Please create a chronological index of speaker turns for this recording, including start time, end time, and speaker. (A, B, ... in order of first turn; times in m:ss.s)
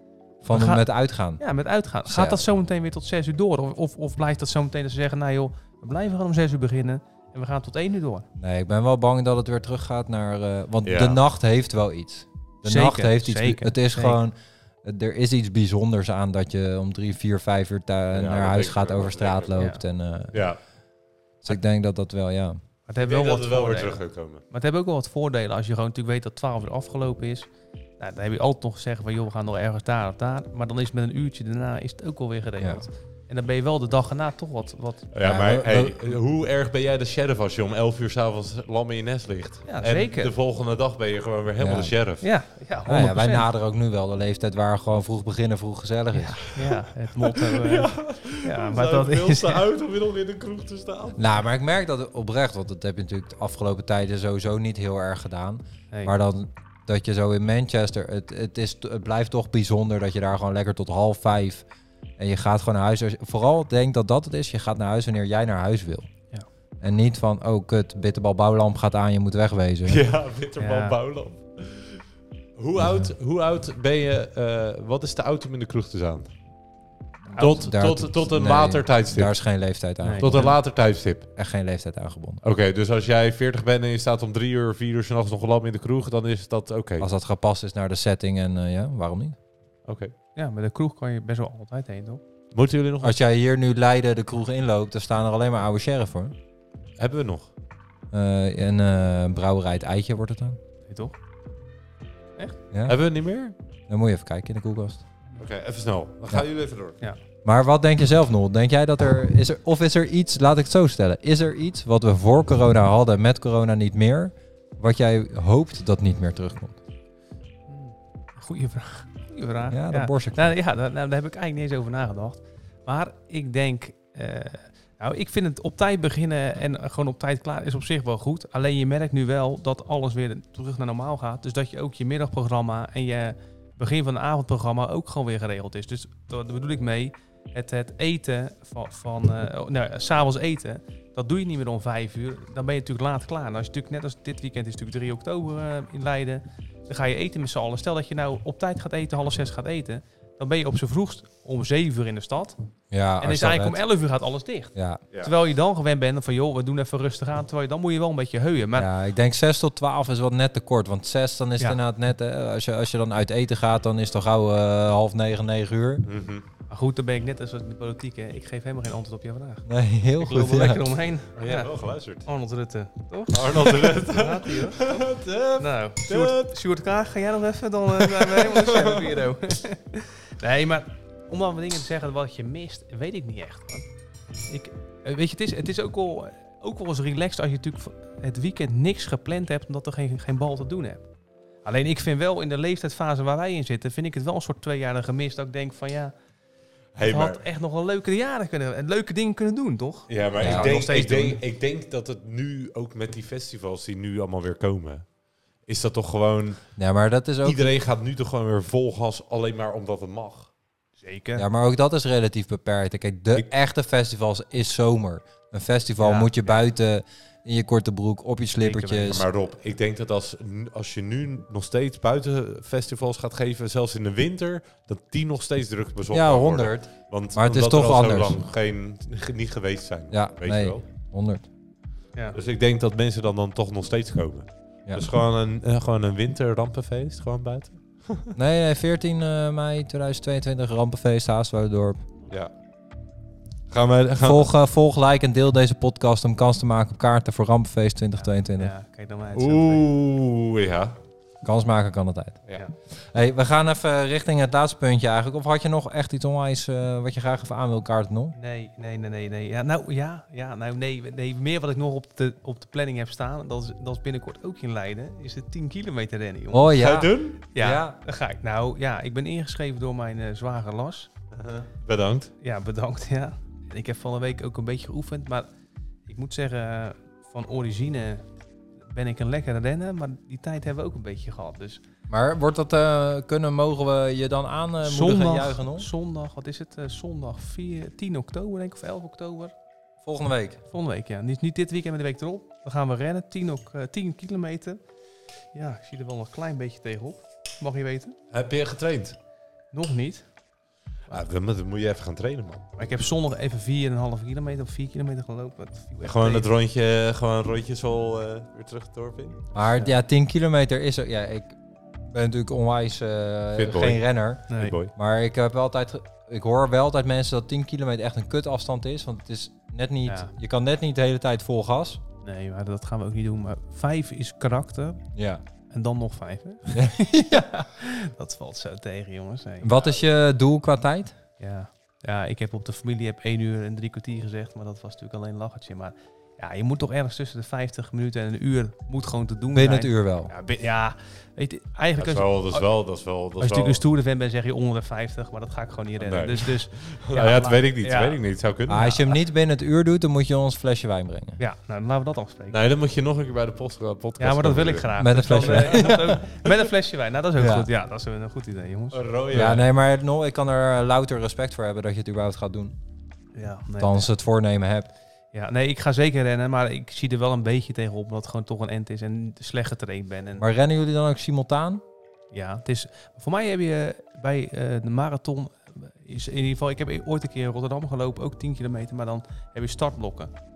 0:00.4-0:01.4 A
0:00.5-0:00.9 B
0:01.4-0:08.2 B
0:02.0-0:02.4 A
0:08.4-0:20.4 A
0:10.8-0:11.2 C
0:12.6-0:14.2 B
0:18.1-0:19.6 C
0:19.6-0:19.8 B
0:20.3-0:20.6 C
0:21.4-0:22.6 A
0:22.9-0:35.1 B
0:23.0-0:24.4 C
0:35.1-0:42.2 C
0:35.2-0:36.0 A
0:39.6-0:40.3 B
0:41.6-0:41.9 A
0:42.2-0:43.5 B
0:42.8-0:46.4 A
0:46.1-0:49.6 B
0:46.5-0:51.3 C
0:51.2-1:01.6 A
1:02.2-1:06.1 A
1:06.8-1:10.0 A
1:09.8-1:12.0 C
1:10.6-1:11.0 B
1:12.6-1:16.3 C
1:12.8-1:13.1 A
1:17.3-1:20.6 A
1:17.3-1:17.6 B
1:17.4-1:19.4 C
1:20.0-1:20.5 B
1:20.1-1:21.3 C
1:21.4-1:22.4 A
1:22.4-1:27.0 C
1:27.0-1:29.4 A
1:29.8-1:30.1 C
1:30.4-1:32.2 B
1:32.5-1:33.2 C
1:33.0-1:36.3 A
1:37.0-1:37.5 C
1:38.1-1:40.6 A
1:40.9-1:41.2 B
1:42.8-1:43.5 C
1:43.9-1:45.0 A
1:45.4-1:47.0 C
1:47.4-1:56.8 A
1:57.7-2:32.6 B
1:59.7-2:00.5 A
2:32.9-2:33.8 A
2:33.2-2:38.9 B
2:34.7-2:35.0 A
2:38.7-2:46.0 A
2:46.0-2:46.4 C
2:46.7-2:55.0 B
2:49.7-2:50.8 A
2:51.4-2:52.2 C
2:53.3-2:56.5 C
2:55.6-3:03.8 B
2:57.9-2:59.3 C
3:04.5-3:11.0 B
3:11.6-3:16.1 B
3:17.0-3:17.4 C
3:17.0-3:21.4 B
3:20.1-3:25.0 C
3:20.4-3:20.7 A
3:25.6-3:26.7 C
3:26.8-3:27.7 A
3:27.4-3:30.5 C
3:31.0-3:31.4 B
3:31.4-3:39.2 A
3:36.0-3:36.3 B
3:38.6-3:39.2 B
3:39.0-3:50.8 C
3:46.1-3:48.4 A
3:50.1-3:51.4 A
3:52.3-3:58.3 C
3:54.8-3:55.1 A
3:58.3-4:02.0 A
4:03.7-4:04.5 C
4:04.2-4:08.7 A
4:08.2-4:09.9 B
4:09.3-4:11.0 C
4:11.4-4:12.4 A
4:13.0-4:18.4 A
4:18.3-4:26.8 B
4:26.5-4:28.0 A
4:26.7-4:27.4 C
4:27.5-4:31.1 B
4:31.4-4:32.3 C
4:32.4-4:35.5 B
4:36.1-4:38.2 B
4:38.8-4:41.8 B
4:42.1-4:45.9 A
4:44.8-4:49.5 B
4:50.0-4:50.6 A
4:50.7-4:54.8 B
4:55.5-4:58.2 B
4:58.3-4:59.2 C
4:59.7-5:00.3 B
5:01.1-5:02.8 C
5:02.8-5:06.5 B
5:06.0-5:09.5 C
5:09.5-5:11.6 A
5:12.1-5:22.0 A
5:13.5-5:14.9 C
5:14.5-5:14.7 B
5:20.0-5:20.3 B
5:22.2-5:25.0 B
5:25.1-5:25.4 A
5:25.7-5:29.9 B
5:26.7-5:27.5 A
5:29.6-5:31.1 A
5:31.4-5:42.7 B
5:39.5-5:40.3 A
5:42.0-5:43.8 C
5:43.4-5:48.2 B
5:46.0-5:49.0 C
5:48.7-5:51.4 A
5:48.8-5:49.1 B
5:51.4-5:52.6 B
5:52.5-5:55.9 C
5:54.2-5:59.0 B
5:55.0-5:56.2 A
5:57.4-5:57.7 A
5:58.9-5:59.7 C
5:59.3-6:02.8 A
6:03.3-6:04.1 B
6:03.8-6:04.9 A
6:05.3-6:10.4 B
6:10.4-6:11.8 A
6:12.3-6:20.3 B